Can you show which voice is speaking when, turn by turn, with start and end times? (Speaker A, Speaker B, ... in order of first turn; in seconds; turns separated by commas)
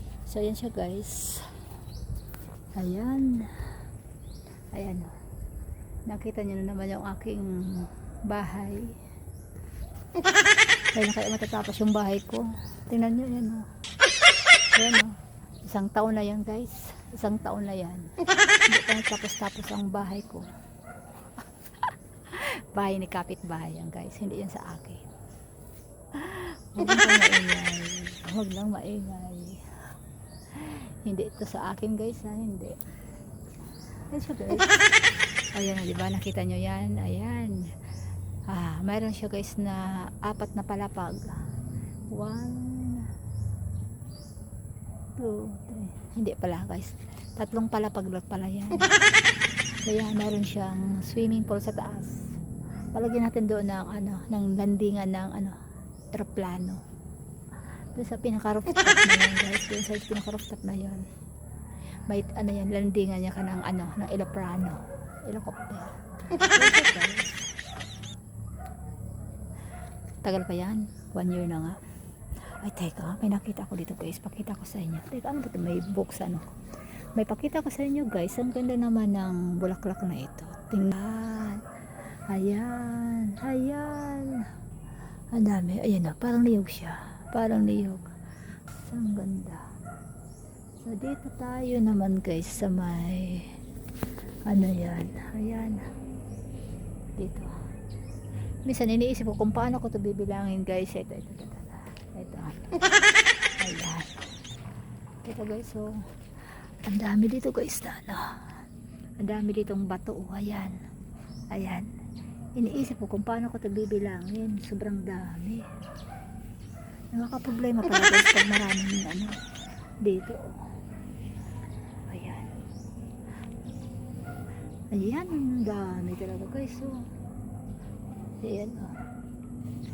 Speaker A: 0.2-1.5, Speaker A: 2.7-3.5, Speaker A: 4.7-5.1, Speaker A: 6.0-8.9, Speaker A: 10.9-13.7, Speaker A: 14.7-18.1, Speaker A: 18.7-20.5, Speaker A: 21.8-25.1, Speaker A: 26.1-29.6, Speaker A: 30.5-32.8, Speaker A: 34.1-34.8, Speaker A: 35.5-37.7, Speaker A: 38.5-41.3, Speaker A: 42.1-43.1, Speaker A: 45.2-49.0, Speaker A: 49.8-52.3, Speaker A: 52.9-55.5, Speaker A: 56.1-56.8, Speaker A: 57.9-61.0, Speaker A: 62.1-67.4, Speaker A: 70.2-71.8, Speaker A: 72.6-76.5, Speaker A: 77.1-81.6, Speaker A: 82.3-84.5, Speaker A: 85.3-88.1, Speaker A: 88.7-89.6, Speaker A: 90.8-93.5, Speaker A: 94.5-95.9, Speaker A: 97.2-97.5, Speaker A: 98.6-102.9, Speaker A: 103.6-104.1, Speaker A: 105.2-106.0, Speaker A: 106.8-108.3, Speaker A: 109.2-110.8, Speaker A: 111.5-111.9, Speaker A: 112.5-115.6, Speaker A: 117.1-119.4, Speaker A: 120.0-120.5, Speaker A: 122.1-122.5, Speaker A: 124.9-127.0, Speaker A: 128.4-128.9